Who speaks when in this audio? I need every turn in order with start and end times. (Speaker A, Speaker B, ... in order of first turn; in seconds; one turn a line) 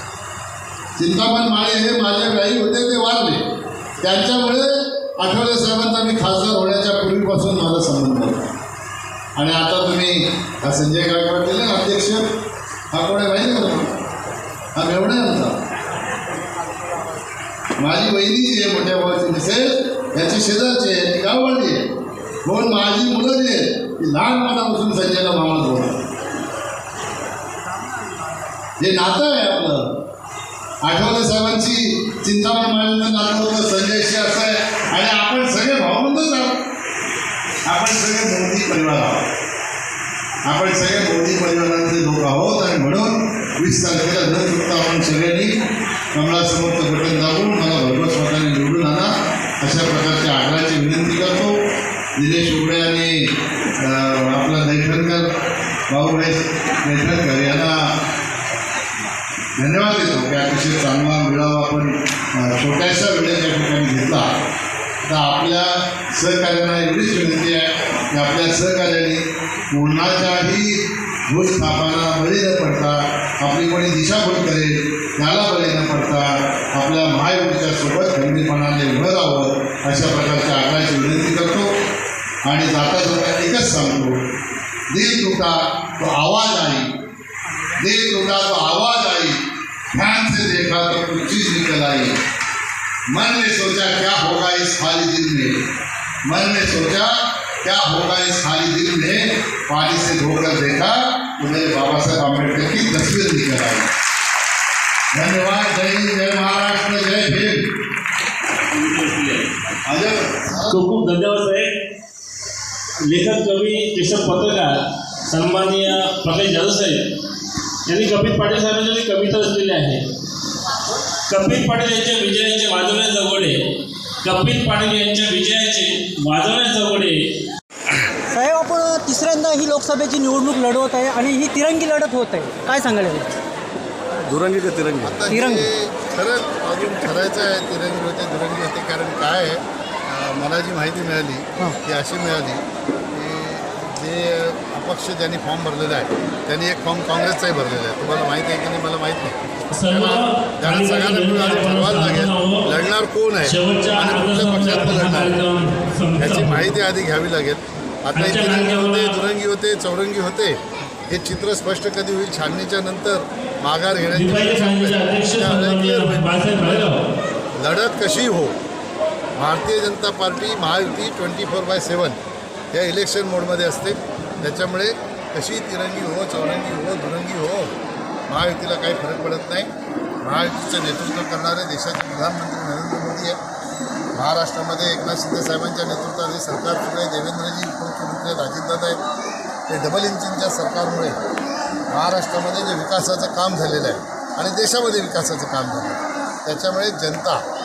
Speaker A: 1.0-3.4
Speaker A: 4.0-8.4
Speaker A: 9.4-12.2
Speaker A: 12.9-13.9
Speaker A: 14.8-15.6
Speaker A: 17.8-21.8
Speaker A: 22.4-26.0
Speaker A: 28.8-29.8
Speaker A: 30.9-36.6
Speaker A: 37.7-39.2
Speaker A: 40.5-45.5
Speaker A: 46.1-49.1
Speaker A: 49.6-51.5
Speaker A: 52.2-53.2
Speaker A: 53.8-55.3
Speaker A: 55.9-57.8
Speaker A: 59.6-64.3
Speaker A: 65.0-69.2
Speaker A: 69.7-81.7
Speaker A: 82.5-84.2
Speaker A: 84.9-86.9
Speaker A: 87.7-89.4
Speaker A: 89.9-92.2
Speaker A: 93.1-95.6
Speaker A: 96.3-103.9
Speaker A: 105.2-107.7
Speaker B: 108.7-109.4
Speaker A: 109.9-110.8
Speaker B: 110.7-111.7
Speaker B: 113.1-114.7
Speaker B: 115.3-117.0
Speaker B: 117.9-120.0
Speaker B: 121.3-123.5
Speaker B: 124.2-127.1
Speaker C: 128.3-133.3
Speaker A: 134.2-142.6
Speaker C: 135.3-135.7
Speaker A: 143.1-149.4
Speaker B: 149.8-152.6
Speaker A: 149.9-155.4
Speaker B: 153.5-156.6
Speaker A: 156.2-166.9
Speaker B: 158.2-159.1
Speaker B: 164.1-166.9
Speaker A: 167.6-168.6
Speaker A: 169.4-172.2
Speaker A: 172.7-177.7
Speaker A: 178.3-179.7
Speaker A: 180.2-183.4
Speaker A: 184.2-189.0
Speaker A: 189.7-191.1
Speaker A: 191.9-197.4